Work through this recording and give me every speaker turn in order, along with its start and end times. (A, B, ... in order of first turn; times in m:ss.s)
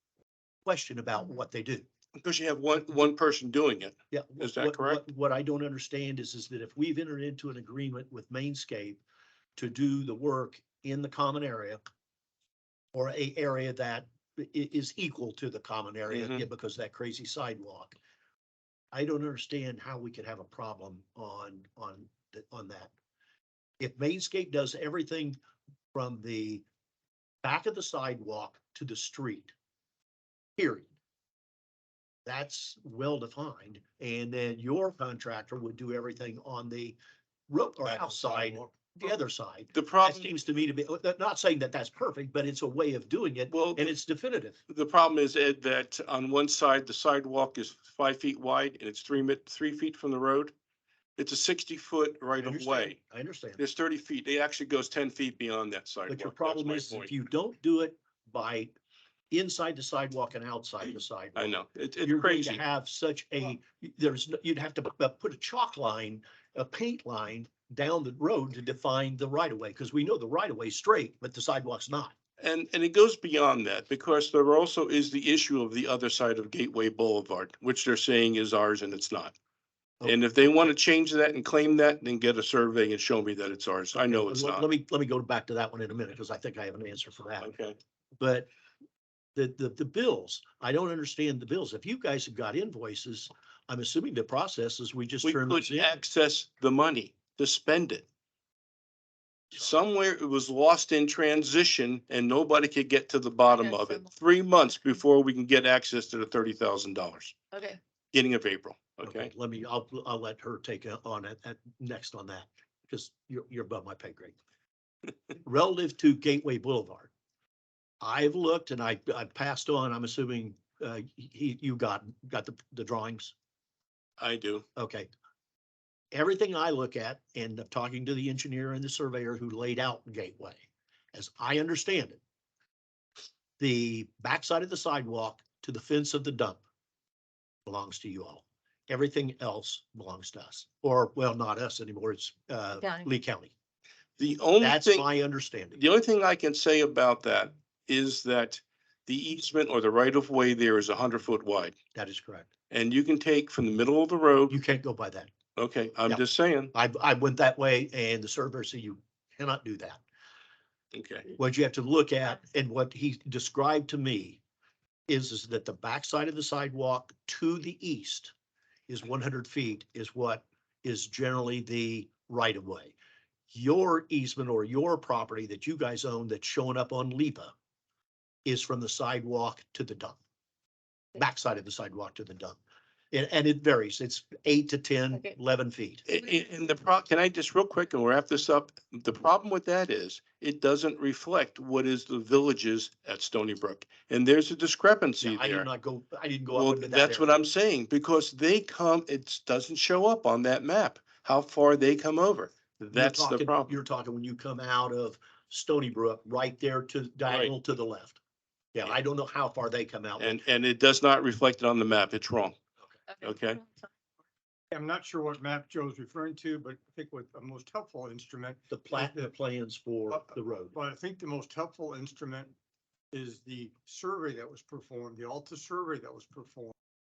0:00.6-0:01.8 A
0:02.2-0:05.0 B
0:04.1-0:09.0 A
0:09.6-0:11.8 A
0:12.9-0:18.0 A
0:16.1-0:16.4 B
0:18.9-0:22.9 A
0:23.8-0:25.4 A
0:25.9-0:26.6 A
0:27.4-0:29.5 A
0:30.6-0:30.9 A
0:32.2-0:37.0 A
0:37.5-0:44.6 A
0:39.7-0:40.3 B
0:43.5-0:43.9 B
0:44.7-0:50.5 B
0:51.2-0:53.0 B
0:52.4-0:53.6 A
0:53.6-0:57.1 B
0:56.1-0:58.7 A
0:59.3-1:12.1 A
1:01.4-1:02.6 B
1:12.4-1:19.3 B
1:20.0-1:24.6 B
1:24.0-1:27.5 A
1:27.4-1:27.8 B
1:28.2-1:28.5 A
1:29.4-1:35.9 A
1:35.2-1:38.0 B
1:39.5-1:47.4 B
1:43.5-1:44.1 C
1:47.5-1:47.8 C
1:48.1-1:49.3 B
1:49.0-1:54.4 A
1:55.4-1:57.1 A
1:58.0-2:03.3 A
2:04.2-2:04.6 B
2:04.8-2:05.1 A
2:06.1-2:12.2 A
2:13.6-2:16.6 A
2:17.6-2:23.5 A
2:22.8-2:23.1 C
2:24.2-2:25.1 B
2:24.6-2:25.8 A
2:25.8-2:31.7 B
2:31.9-2:32.5 A
2:32.7-2:34.6 B
2:34.5-2:35.3 A
2:35.6-2:36.7 B
2:36.7-2:40.0 A
2:40.9-2:41.3 B
2:41.3-2:44.4 A
2:45.1-2:48.3 A
2:48.9-2:52.9 A
2:53.5-2:57.5 A
2:58.4-3:00.2 A
3:01.2-3:02.6 A
3:03.1-3:06.0 A
3:06.1-3:15.7 B
3:15.2-3:17.3 A
3:16.5-3:23.7 B
3:22.8-3:28.2 A
3:28.7-3:30.4 A
3:30.2-3:32.6 B
3:33.1-3:33.9 C
3:33.2-3:33.6 B
3:34.7-3:39.3 D
3:38.7-3:40.7 A
3:40.1-3:42.5 D
3:43.1-3:46.7 D